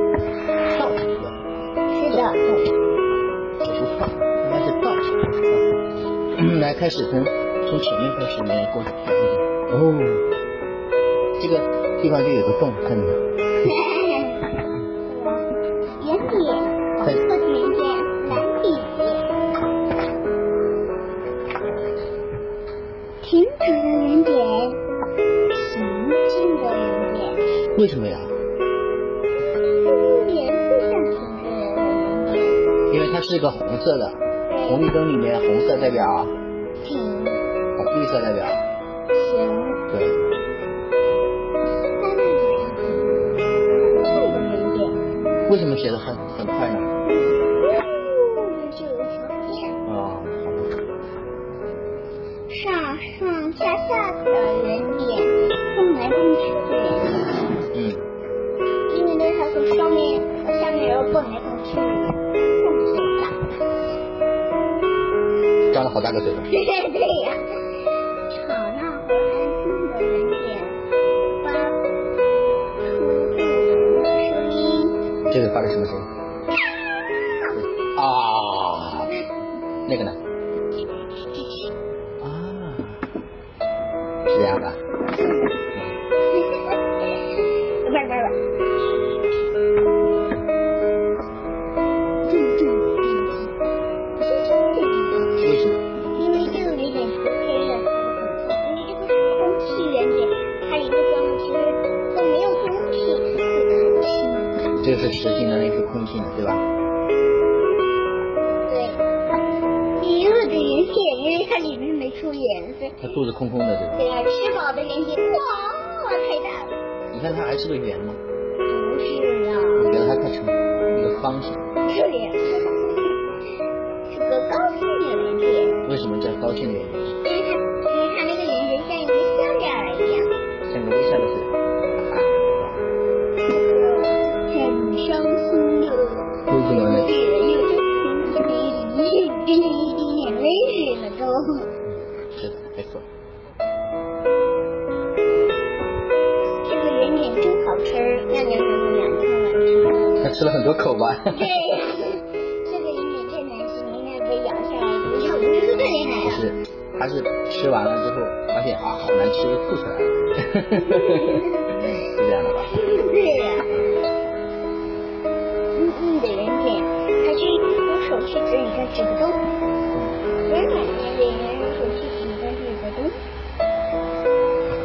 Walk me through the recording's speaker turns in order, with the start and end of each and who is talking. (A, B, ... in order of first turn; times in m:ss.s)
0:00.7-0:01.4 A
0:01.9-0:02.7 B
0:03.6-0:05.7 A
0:06.4-0:10.2 A
0:11.4-0:13.2 A
0:13.6-0:14.5 B
0:15.1-0:15.5 B
0:16.0-0:19.3 B
0:23.2-0:24.8 B
0:25.5-0:27.4 B
0:27.7-0:28.3 A
0:29.8-0:32.6 B
0:32.9-0:36.3 A
0:34.5-0:34.9 B
0:36.8-0:37.5 B
0:37.8-0:38.6 A
0:39.2-0:39.8 B
0:39.9-0:40.2 A
0:42.0-0:43.2 B
0:44.0-0:45.0 B
0:45.5-0:46.9 A
0:47.1-0:49.8 B
0:49.9-0:50.8 A
0:52.5-0:57.5 B
0:57.7-0:58.0 A
0:58.9-1:03.4 B
1:05.7-1:06.5 A
1:06.5-1:07.4 B
1:08.3-1:10.8 B
1:11.4-1:11.8 B
1:12.8-1:15.0 B
1:15.3-1:16.1 A
1:16.6-1:17.6 B
1:17.5-1:19.1 A
1:19.9-1:20.2 A
1:22.2-1:23.0 A
1:24.3-1:24.8 A
1:25.1-1:25.6 B
1:26.3-1:28.4 B
1:32.3-1:33.5 B
1:34.2-1:35.3 B
1:35.4-1:35.8 A
1:36.2-1:44.7 B
1:44.8-1:46.6 A
1:48.7-1:49.0 B
1:50.0-1:53.0 B
1:53.0-1:54.0 A
1:54.0-1:56.8 B
1:57.1-1:58.2 A
1:58.7-1:59.9 B
1:59.8-2:01.6 A
2:01.8-2:03.2 B
2:04.1-2:05.9 B
2:05.8-2:07.2 A
2:07.2-2:10.3 B
2:10.7-2:11.5 A
2:12.1-2:12.8 A
2:13.4-2:21.7 B
2:16.5-2:17.1 A
2:21.9-2:23.1 A
2:26.6-2:30.2 B
2:30.2-2:31.4 A
2:31.3-2:36.4 B
2:36.2-2:41.4 A
2:40.8-2:42.0 B
2:42.0-2:42.7 A
2:42.7-2:43.7 B
2:45.8-2:49.4 B
2:50.4-2:53.2 B